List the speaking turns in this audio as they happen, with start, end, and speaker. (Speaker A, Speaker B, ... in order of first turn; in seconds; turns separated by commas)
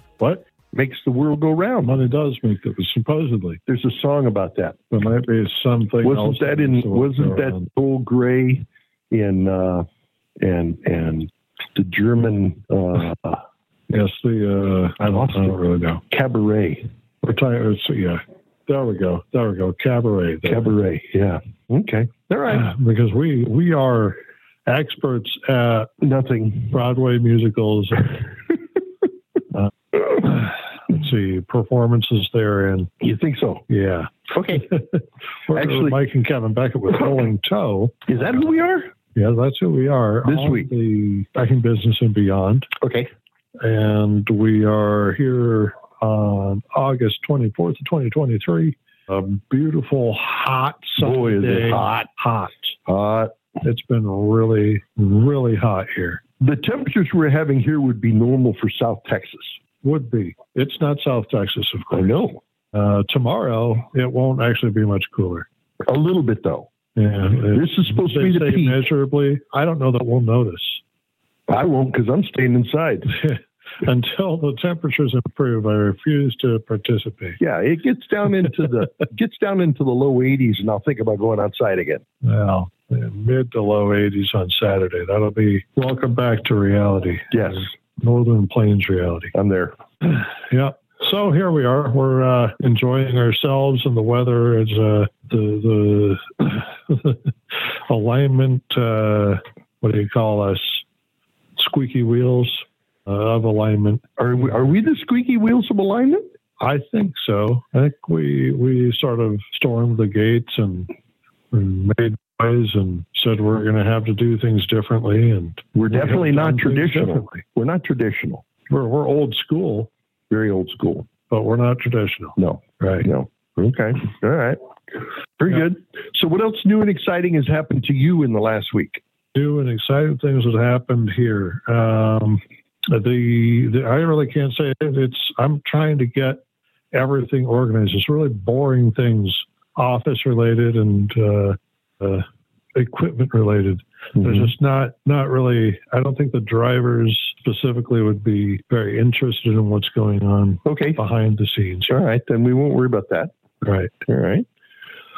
Speaker A: 0.2-0.4, Speaker B: 0.7-2.0, Speaker A: 1.8-3.6, Speaker B: 3.7-4.8, Speaker A: 4.9-7.7, Speaker B: 6.0-9.9, Speaker B: 10.4-13.4, Speaker A: 13.9-16.0, Speaker B: 15.1-15.6, Speaker B: 16.1-16.9, Speaker A: 17.2-20.8, Speaker B: 20.4-22.6, Speaker A: 22.5-25.9, Speaker B: 26.0-26.7, Speaker A: 26.7-28.2, Speaker A: 29.5-32.9, Speaker B: 33.0-33.6, Speaker A: 33.7-38.0, Speaker B: 34.3-34.7, Speaker B: 35.5-36.0, Speaker B: 38.1-38.9, Speaker A: 39.1-42.7, Speaker B: 40.2-40.7, Speaker B: 42.8-43.1, Speaker A: 43.6-52.8, Speaker B: 51.0-52.1, Speaker B: 52.9-53.3, Speaker A: 53.6-56.2, Speaker B: 56.4-59.6, Speaker A: 59.8-65.5, Speaker B: 61.9-62.4, Speaker B: 65.8-66.7, Speaker A: 67.0-70.8, Speaker B: 67.5-68.8, Speaker B: 71.5-73.1, Speaker A: 73.1-77.4, Speaker B: 77.4-82.0, Speaker A: 82.2-89.3, Speaker B: 87.3-87.7, Speaker B: 89.3-89.8, Speaker A: 90.0-100.8, Speaker A: 101.6-104.0, Speaker B: 104.2-106.3, Speaker A: 106.6-110.9, Speaker A: 111.5-117.4, Speaker B: 115.8-118.4, Speaker A: 118.7-119.9, Speaker B: 120.3-121.1, Speaker A: 121.3-123.1, Speaker B: 122.4-124.6, Speaker B: 125.4-129.0, Speaker A: 129.3-136.4, Speaker A: 136.9-152.0, Speaker B: 144.2-144.5, Speaker B: 150.7-151.0, Speaker B: 151.9-153.3, Speaker A: 153.6-153.9, Speaker B: 154.1-154.5